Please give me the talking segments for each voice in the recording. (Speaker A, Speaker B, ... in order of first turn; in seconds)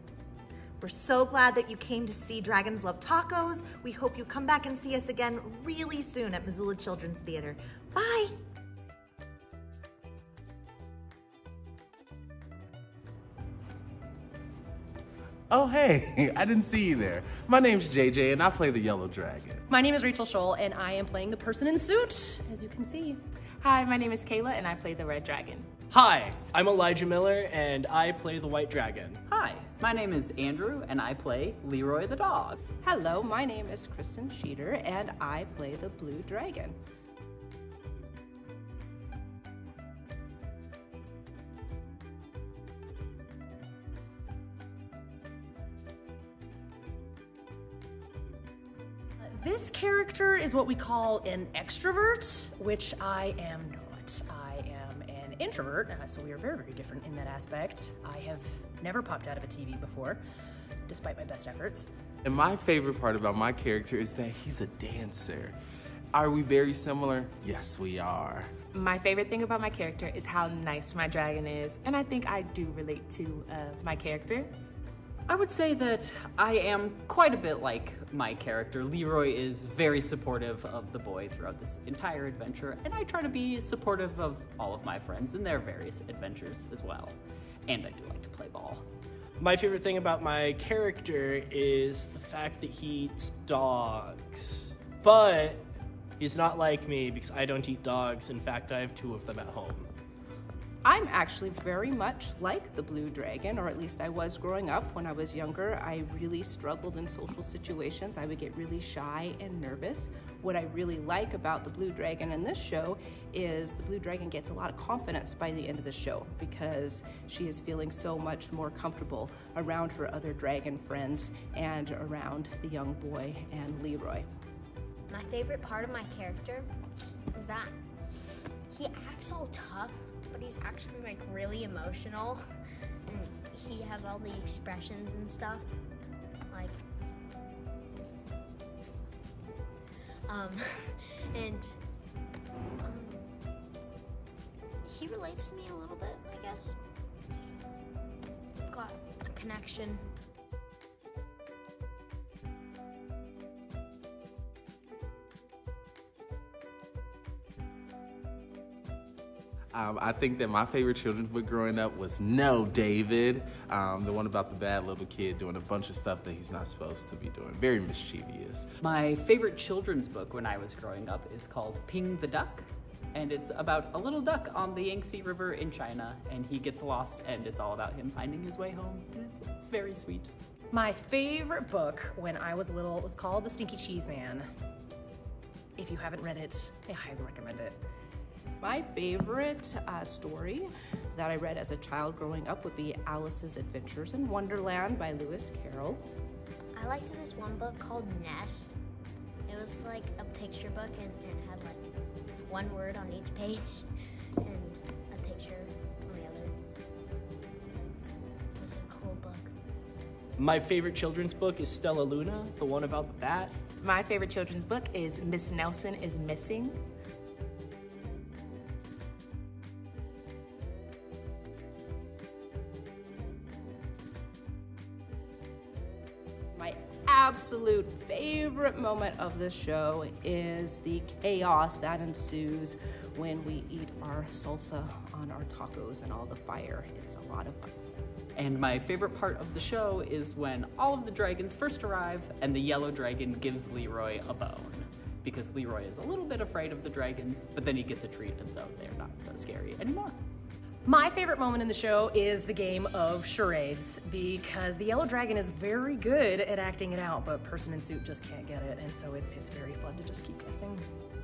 Speaker A: 0.8-8.3
Speaker B: 15.5-19.6, 62.2-65.5, 66.1-68.5, 159.8-168.7
Speaker C: 19.8-23.2, 49.5-60.2, 61.0-61.9, 180.8-184.5, 185.8-187.8, 250.9-260.8
Speaker D: 23.6-25.7, 68.7-74.5, 213.8-216.8
Speaker E: 25.9-29.2, 89.4-95.7, 96.2-99.9, 210.4-213.5
Speaker F: 29.3-32.6, 75.3-88.8, 168.8-180.3, 238.3-250.2
Speaker G: 32.8-36.8, 100.8-124.3, 188.6-196.1, 226.5-237.8
Speaker H: 125.1-126.7, 127.3-132.4, 133.1-135.8, 136.5-136.8, 140.3-141.8, 142.8-143.3, 144.8-146.8, 148.6-150.1, 196.8-198.8, 199.5-201.8, 202.4-203.9, 204.4-206.6, 207.9-209.5